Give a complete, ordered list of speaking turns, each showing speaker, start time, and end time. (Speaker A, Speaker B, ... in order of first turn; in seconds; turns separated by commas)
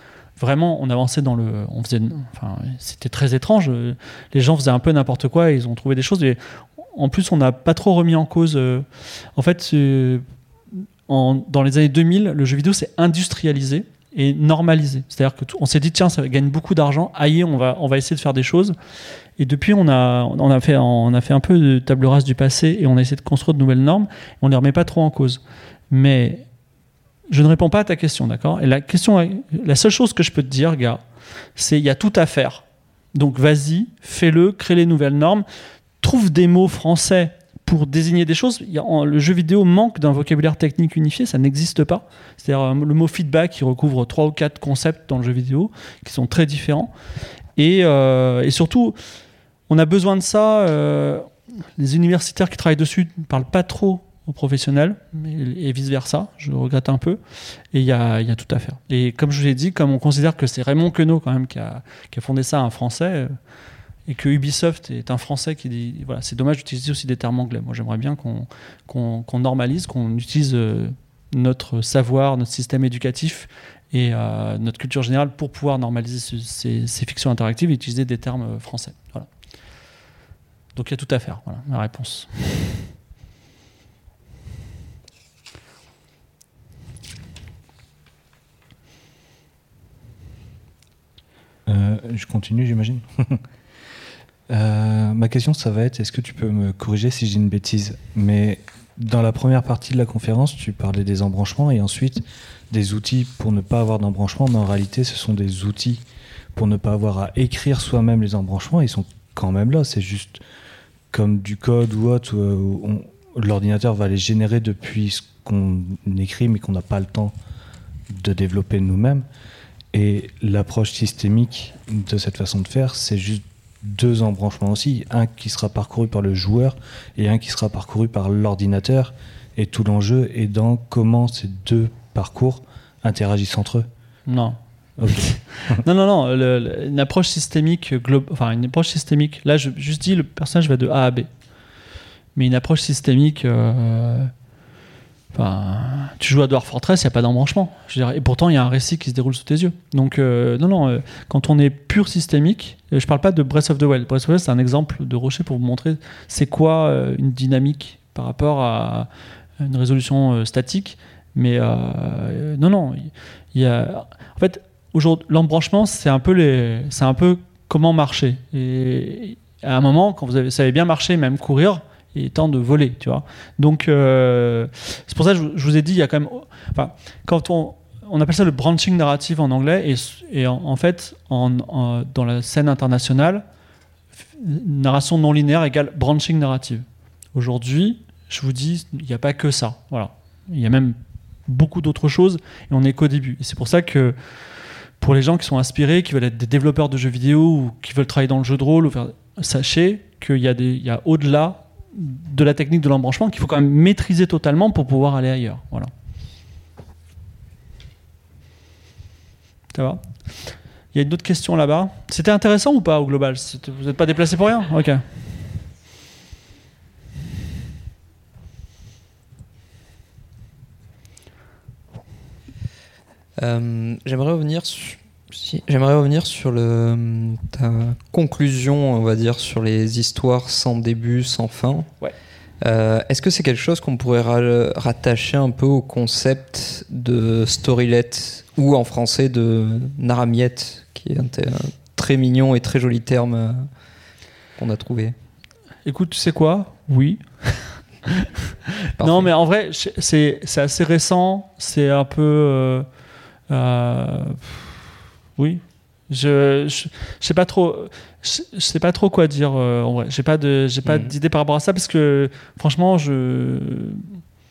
Speaker A: 0.4-18.8, Speaker A: 19.4-26.4, Speaker A: 27.3-31.0, Speaker A: 31.5-35.4, Speaker A: 36.0-46.9, Speaker A: 47.5-49.0, Speaker A: 49.7-57.2, Speaker A: 57.7-63.3, Speaker A: 64.1-79.3, Speaker A: 80.8-82.9, Speaker B: 91.7-93.4, Speaker B: 94.5-106.0, Speaker B: 106.5-110.4, Speaker B: 111.1-117.3, Speaker B: 118.1-119.2, Speaker B: 119.9-133.9, Speaker A: 134.3-141.3, Speaker B: 135.0-135.7, Speaker A: 142.3-144.3, Speaker A: 145.3-183.4, Speaker A: 184.1-205.9, Speaker A: 209.7-215.4, Speaker C: 223.4-243.7, Speaker C: 244.6-245.1, Speaker A: 245.8-252.9, Speaker C: 249.0-249.3, Speaker A: 253.5-254.8, Speaker A: 255.4-264.2, Speaker C: 260.8-261.1